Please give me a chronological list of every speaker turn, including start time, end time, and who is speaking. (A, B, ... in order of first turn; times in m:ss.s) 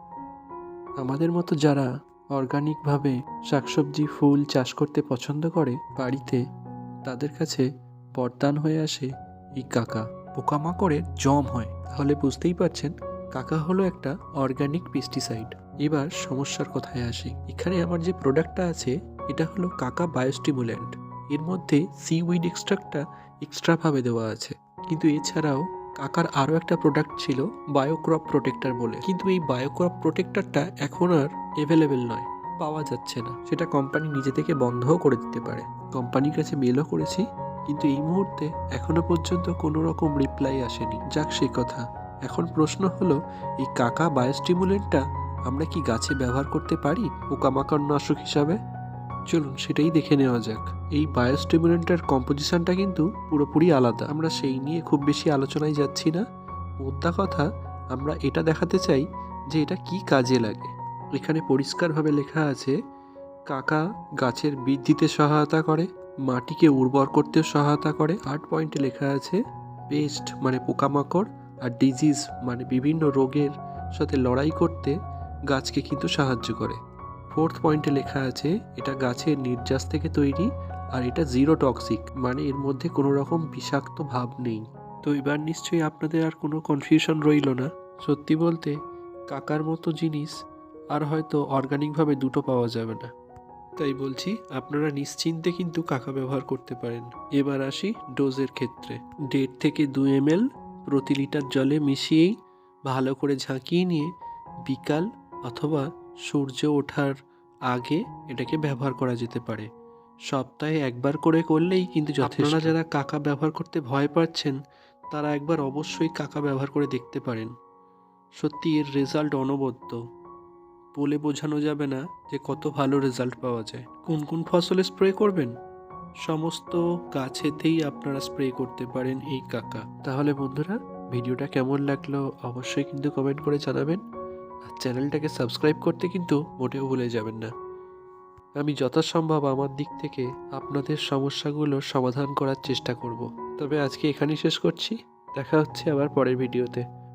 0:01.0-0:06.4 A
0:07.0-0:07.6 A
0:08.2-0:48.6 A
0:49.3-0:56.2 A
0:56.8-1:02.8 A
1:03.5-1:09.4 A
1:09.9-1:14.9 A
1:15.5-1:16.8 A
1:17.3-1:28.8 A
1:29.3-1:30.3 A
1:30.9-1:33.1 A
1:33.8-1:42.3 A
1:42.9-1:44.1 A
1:44.7-1:47.1 A
1:47.7-1:49.7 A
1:50.3-1:54.6 A
1:55.1-1:57.5 A
1:58.4-2:00.0 A
2:00.9-2:05.5 A
2:06.2-2:14.0 A
2:14.7-2:17.5 A
2:18.6-2:26.8 A